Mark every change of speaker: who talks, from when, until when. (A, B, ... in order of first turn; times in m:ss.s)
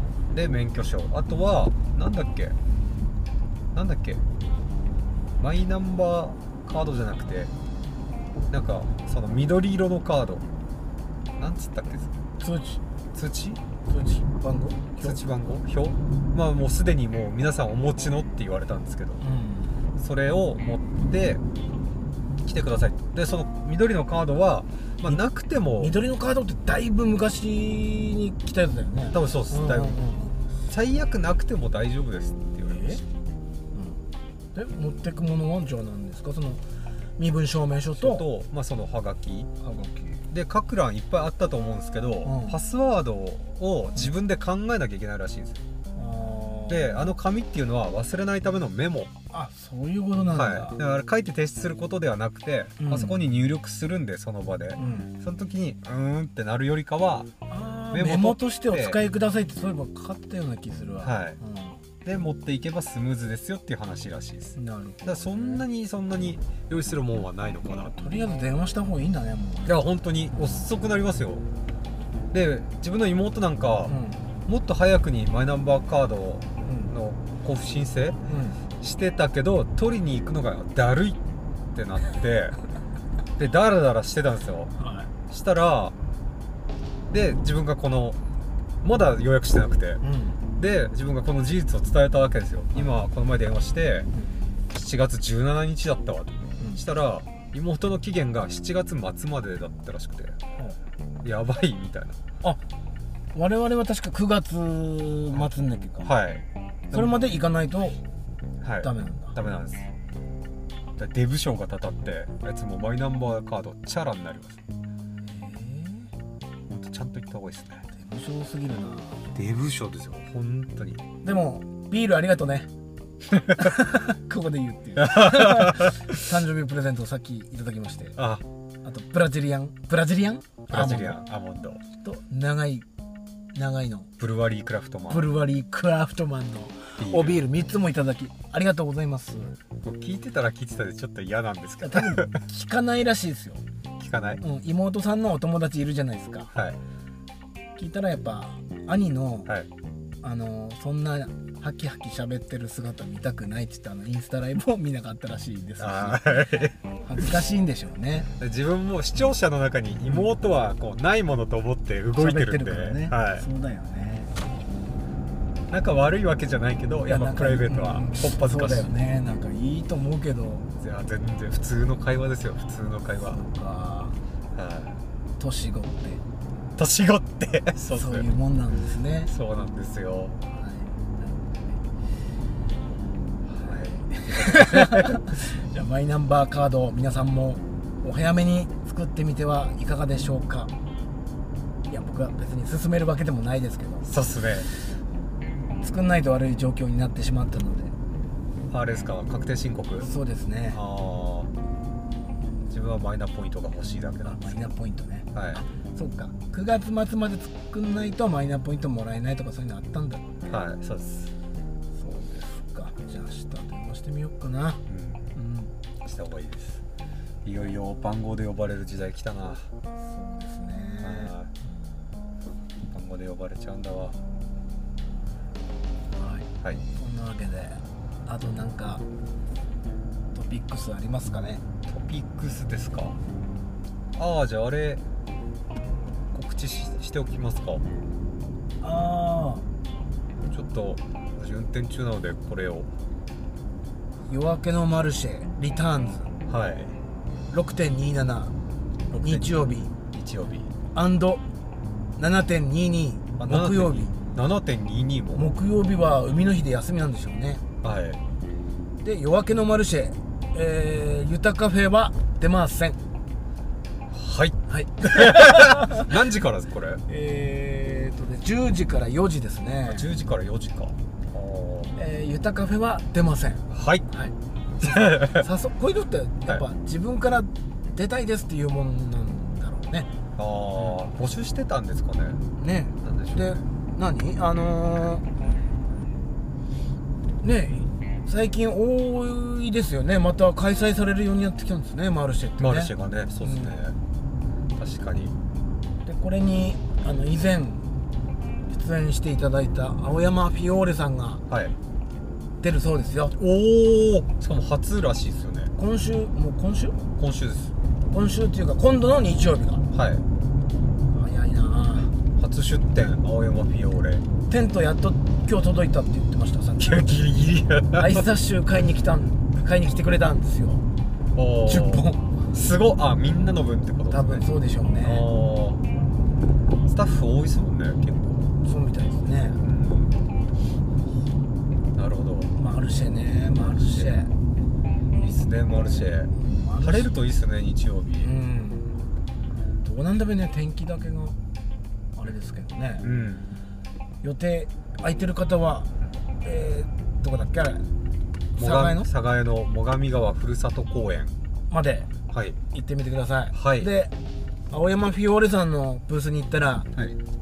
0:00.3-0:02.6 A
0:03.7-0:04.2 A
0:05.4-0:07.5 A
0:08.5-0:10.4 A
0:11.4-0:12.2 A
0:12.4-0:12.8 B
0:13.1-0:13.6 A
0:13.9-0:15.2 B
0:15.0-0:19.2 A
0:19.2-0:19.8 B
0:20.0-0:21.4 A
0:22.4-0:25.9 A
0:25.8-0:30.4 B
0:29.1-0:30.0 A
0:30.7-0:33.0 A
0:32.7-0:33.0 B
0:33.7-0:34.0 B
0:34.5-0:36.6 B
0:37.2-0:38.2 B
0:37.9-0:39.5 A
0:39.6-0:40.2 B
0:40.3-0:45.6 A
0:42.2-0:42.6 B
0:45.9-0:47.0 B
0:46.7-0:49.1 A
0:49.3-0:50.8 B
0:50.3-0:57.3 A
0:52.8-0:53.1 B
0:54.8-0:55.1 B
0:57.5-1:01.8 B
0:57.9-0:59.0 A
1:01.0-1:01.4 A
1:02.0-1:08.0 A
1:04.6-1:05.6 B
1:08.0-1:09.8 B
1:09.6-1:11.4 A
1:10.3-1:10.6 B
1:12.3-1:18.2 A
1:13.8-1:14.2 B
1:16.6-1:16.9 B
1:18.2-1:18.6 B
1:18.8-1:21.2 A
1:21.7-1:22.6 A
1:23.4-1:24.7 A
1:24.8-1:25.1 B
1:25.3-1:25.9 A
1:27.1-1:28.2 A
1:28.8-1:30.0 A
1:30.0-1:30.4 B
1:30.6-1:34.1 A
1:34.1-1:34.4 B
1:34.7-1:40.4 A
1:41.2-1:42.2 A
1:43.3-1:46.1 B
1:46.0-1:47.2 A
1:46.9-1:48.0 B
1:48.6-1:49.9 A
1:48.8-1:49.4 B
1:51.0-1:54.6 A
1:55.2-1:56.1 B
1:56.7-1:57.8 A
1:57.9-1:59.2 B
1:59.3-2:01.0 A
2:01.2-2:02.7 B
2:03.4-2:03.7 A
2:03.6-2:08.2 B
2:05.0-2:06.2 A
2:08.2-2:08.4 A
2:08.8-2:11.2 B
2:10.7-2:11.8 A
2:12.0-2:12.8 B
2:13.5-2:14.1 B
2:14.2-2:15.3 A
2:15.1-2:19.6 B
2:17.0-2:17.4 A
2:19.8-2:22.4 A
2:21.8-2:23.6 B
2:24.0-2:24.4 A
2:24.4-2:26.5 B
2:27.8-2:29.5 B
2:30.2-2:38.3 B
2:35.8-2:36.7 A
2:38.4-2:43.4 A
2:42.2-2:44.3 B
2:45.7-2:48.9 A
2:47.0-2:50.7 B
2:50.8-2:53.4 A
2:53.2-2:54.2 B
2:54.5-2:55.0 A
2:55.4-2:56.2 B
2:56.8-2:58.3 A
2:58.0-2:59.3 B
2:59.2-3:00.4 A
3:00.5-3:01.8 B
3:03.4-3:05.4 A
3:04.1-3:10.7 B
3:11.9-3:14.1 B
3:14.0-3:14.7 A
3:15.8-3:17.9 B
3:18.7-3:20.1 A
3:20.0-3:20.8 B
3:20.7-3:21.5 A
3:22.7-3:24.7 A
3:24.2-3:30.3 B
3:25.3-3:25.6 A
3:30.5-3:31.3 A
3:31.9-3:34.8 B
3:34.9-3:35.4 A
3:35.3-3:35.7 B
3:36.0-3:36.8 A
3:37.4-3:39.7 A
3:40.0-3:41.8 B
3:41.0-3:41.5 A
3:42.8-3:44.2 A
3:46.2-3:49.0 B
3:50.3-3:51.6 B
3:51.9-3:53.2 A
3:54.2-3:55.0 A
3:56.3-3:57.8 A
3:58.8-3:59.6 B
4:00.5-4:02.9 A
4:04.2-4:06.3 B
4:06.5-4:07.0 A
4:07.5-4:08.5 B
4:09.1-4:10.7 A
4:09.2-4:09.9 B
4:10.9-4:11.4 B
4:12.2-4:14.1 B
4:13.4-4:15.5 A
4:15.3-4:17.6 B
4:17.8-4:18.2 A
4:19.0-4:23.0 B
4:24.1-4:27.0 A
4:24.7-4:26.1 B
4:27.1-4:30.1 B
4:29.8-4:31.9 A
4:32.0-4:40.1 B
4:33.7-4:34.1 A
4:34.8-4:35.5 A
4:40.4-4:42.4 A
4:42.6-4:45.2 B
4:43.0-4:43.6 A
4:47.4-4:52.9 B
4:52.6-4:54.0 A
4:53.4-4:53.8 B
4:54.8-4:55.4 A
4:56.0-4:57.9 B
4:58.7-5:01.4 B
5:01.5-5:01.7 A
5:02.6-5:03.4 B
5:03.4-5:05.7 A
5:05.8-5:07.0 B
5:07.2-5:07.7 A
5:08.1-5:09.8 B
5:09.9-5:10.2 A
5:11.1-5:12.1 B
5:12.4-5:14.2 A
5:14.5-5:17.0 B
5:16.8-5:18.2 A
5:18.0-5:20.8 B
5:21.4-5:24.5 A
5:21.6-5:22.3 B
5:24.1-5:25.2 B
5:25.0-5:25.8 A
5:26.8-5:28.5 A
5:28.6-5:29.6 B
5:29.6-5:30.2 A
5:31.9-5:32.5 A
5:32.6-5:34.3 B
5:35.2-5:38.3 A
5:36.4-5:37.1 B
5:38.2-5:39.0 B
5:39.8-5:41.4 B
5:42.2-5:43.0 B
5:43.0-5:43.4 A
5:44.2-5:45.9 B
5:46.4-5:47.9 B
5:48.6-5:49.1 B
5:48.6-5:51.3 A
5:51.7-5:52.1 B
5:52.3-5:52.6 A
5:52.7-5:54.1 B
5:53.5-5:53.9 A
5:54.7-5:56.9 B